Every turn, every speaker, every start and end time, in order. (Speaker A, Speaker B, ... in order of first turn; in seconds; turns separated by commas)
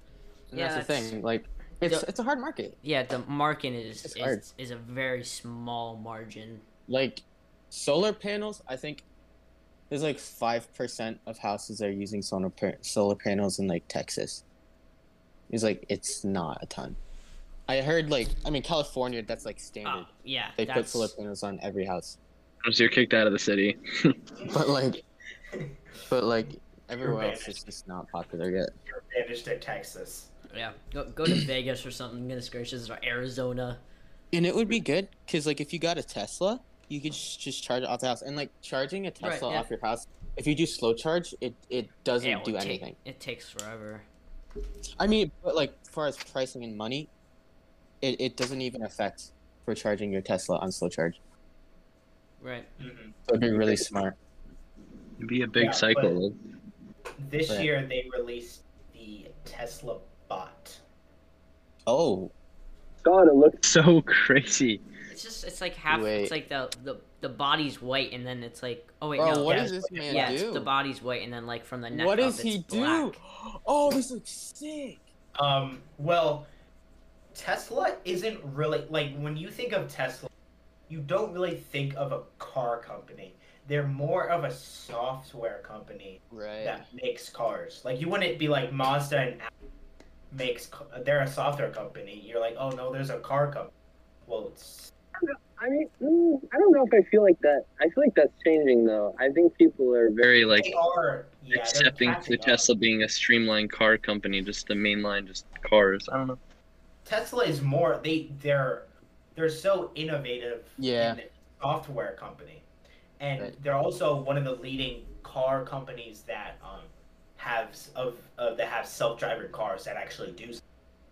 Speaker A: 0.5-2.8, Speaker B: 0.5-1.1, Speaker B: 2.8-6.6, Speaker A: 4.0-4.5, Speaker A: 6.9-9.0, Speaker A: 9.9-14.4, Speaker A: 15.5-17.0, Speaker A: 17.7-22.2, Speaker B: 19.8-21.1, Speaker C: 22.6-24.2, Speaker A: 24.5-25.0, Speaker A: 26.1-28.7, Speaker D: 27.0-27.6, Speaker D: 28.9-30.3, Speaker B: 30.5-33.8, Speaker A: 34.3-43.0, Speaker B: 39.2-39.7, Speaker B: 42.2-44.1, Speaker A: 45.0-47.1, Speaker A: 48.0-51.2, Speaker B: 52.4-52.7, Speaker D: 52.8-53.2, Speaker A: 53.3-54.2, Speaker C: 55.2-56.4, Speaker D: 55.6-56.2, Speaker D: 57.2-60.8, Speaker A: 61.9-62.3, Speaker E: 63.0-63.7, Speaker C: 63.6-64.8, Speaker B: 65.1-73.2, Speaker A: 65.9-66.3, Speaker A: 69.2-70.7, Speaker D: 69.5-70.4, Speaker A: 71.9-75.0, Speaker D: 75.4-76.5, Speaker D: 77.3-80.3, Speaker D: 80.9-89.5, Speaker A: 86.3-86.9, Speaker D: 90.3-93.7, Speaker D: 94.3-94.9, Speaker E: 95.2-100.3, Speaker C: 100.2-100.7, Speaker D: 100.5-102.7, Speaker C: 101.5-106.4, Speaker D: 107.0-112.7, Speaker A: 110.8-111.2, Speaker D: 113.2-120.6